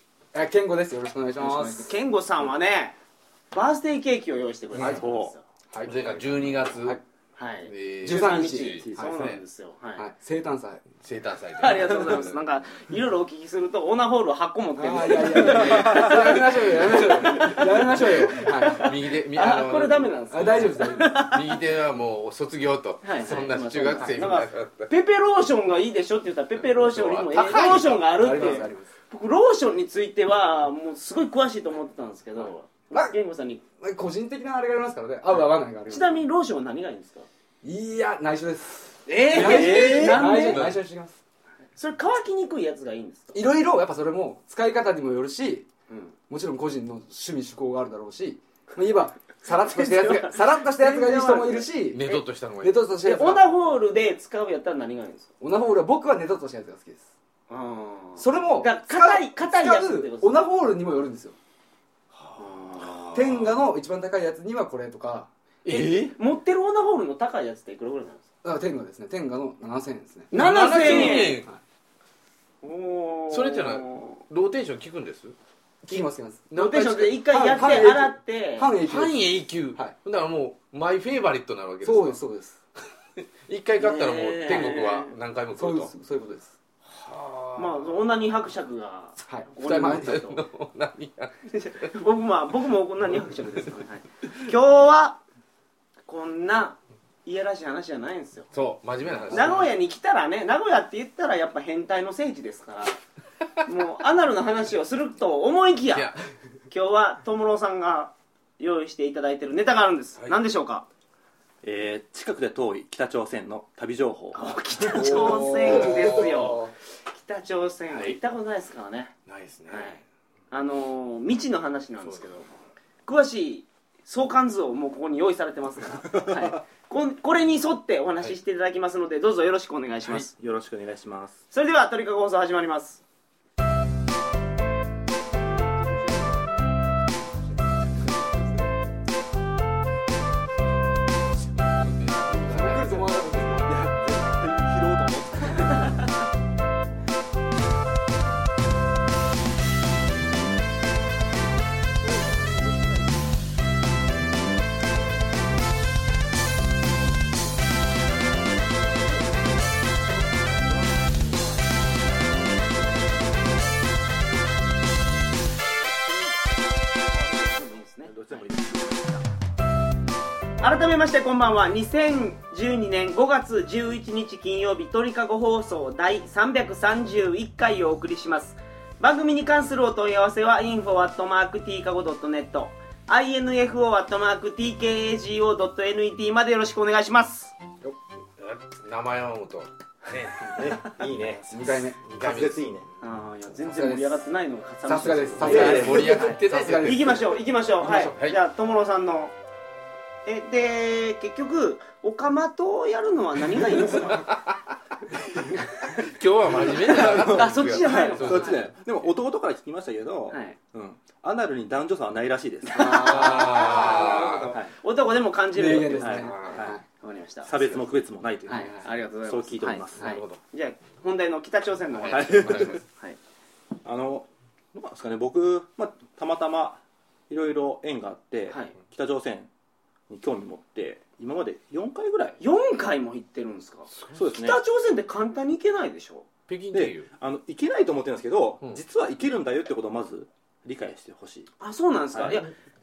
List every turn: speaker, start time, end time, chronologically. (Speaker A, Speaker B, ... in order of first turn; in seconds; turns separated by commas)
Speaker A: 0.3-1.9, Speaker B: 1.4-3.0, Speaker B: 3.5-5.5, Speaker C: 4.8-5.0, Speaker D: 4.8-5.3, Speaker C: 5.7-7.0, Speaker A: 5.9-6.2, Speaker A: 6.8-7.0, Speaker B: 7.4-10.1, Speaker C: 7.7-9.4, Speaker A: 8.0-9.2, Speaker A: 10.0-10.9, Speaker C: 11.0-12.4, Speaker B: 11.6-21.5, Speaker A: 14.8-19.6, Speaker C: 15.3-24.9, Speaker A: 20.3-21.4, Speaker B: 23.0-33.6, Speaker A: 23.2-24.2, Speaker C: 26.6-28.7, Speaker A: 27.3-28.9, Speaker A: 32.9-33.2, Speaker A: 33.8-36.2, Speaker B: 35.9-37.3, Speaker A: 37.6-41.2, Speaker B: 39.1-40.7, Speaker D: 39.4-40.4, Speaker C: 39.6-40.8, Speaker B: 41.8-43.4, Speaker A: 43.3-45.7, Speaker B: 45.9-46.1, Speaker A: 46.3-52.1, Speaker B: 49.5-52.2, Speaker C: 51.9-52.8, Speaker A: 52.6-53.5, Speaker B: 53.0-55.3, Speaker A: 55.4-57.1, Speaker B: 57.5-60.4, Speaker A: 58.2-61.4, Speaker C: 62.1-63.7, Speaker B: 62.4-63.1, Speaker A: 63.1-65.3, Speaker C: 65.7-66.2, Speaker B: 65.7-68.2, Speaker A: 68.4-71.6, Speaker B: 70.3-71.4, Speaker C: 70.3-71.5, Speaker B: 72.6-74.2, Speaker C: 73.3-75.3, Speaker A: 75.9-79.2, Speaker B: 76.5-78.7, Speaker C: 76.6-78.0, Speaker C: 78.8-82.2, Speaker A: 81.8-82.6, Speaker C: 83.5-85.9, Speaker B: 83.8-85.1, Speaker A: 84.5-84.9, Speaker A: 85.5-86.5, Speaker C: 86.9-88.0, Speaker B: 87.5-90.4, Speaker A: 89.3-90.2, Speaker C: 89.6-91.9, Speaker B: 91.5-95.2, Speaker C: 93.2-93.7, Speaker B: 96.1-98.5, Speaker C: 98.5-99.7, Speaker B: 99.3-103.0, Speaker B: 103.6-106.1, Speaker C: 105.9-106.2, Speaker B: 106.7-110.8, Speaker D: 111.6-116.1, Speaker B: 114.3-119.2, Speaker A: 115.0-116.6, Speaker C: 115.1-116.5, Speaker C: 119.3-120.0, Speaker B: 119.7-122.5, Speaker C: 122.0-122.3, Speaker B: 123.1-130.3, Speaker D: 126.1-126.6, Speaker D: 130.3-131.4, Speaker B: 131.5-133.0, Speaker D: 137.9-138.6, Speaker C: 141.6-143.5, Speaker A: 142.3-143.7, Speaker D: 143.5-145.9, Speaker B: 165.8-168.5, Speaker D: 168.0-169.2, Speaker B: 170.6-187.5, Speaker C: 188.4-190.7, Speaker D: 190.4-192.9, Speaker A: 191.5-192.0, Speaker C: 192.0-192.7, Speaker B: 193.0-199.3, Speaker A: 193.6-194.2, Speaker A: 194.9-197.2, Speaker D: 195.4-196.2, Speaker C: 195.4-198.4, Speaker B: 200.2-204.3, Speaker C: 203.9-204.6, Speaker C: 205.9-208.7, Speaker B: 206.7-208.7, Speaker D: 206.8-214.7, Speaker B: 210.3-210.6, Speaker B: 212.7-217.5, Speaker C: 212.8-214.5, Speaker A: 215.5-216.8, Speaker D: 216.0-216.8, Speaker C: 216.2-216.7, Speaker D: 217.4-220.2, Speaker B: 218.5-223.2, Speaker C: 220.0-220.4, Speaker C: 221.9-222.8, Speaker D: 222.1-222.8, Speaker D: 223.8-229.5, Speaker B: 228.5-228.8, Speaker D: 230.1-232.4, Speaker B: 232.4-236.3, Speaker C: 233.9-234.2, Speaker D: 234.1-234.6, Speaker C: 236.5-237.1, Speaker D: 236.7-241.5, Speaker B: 241.6-242.5, Speaker D: 242.1-242.4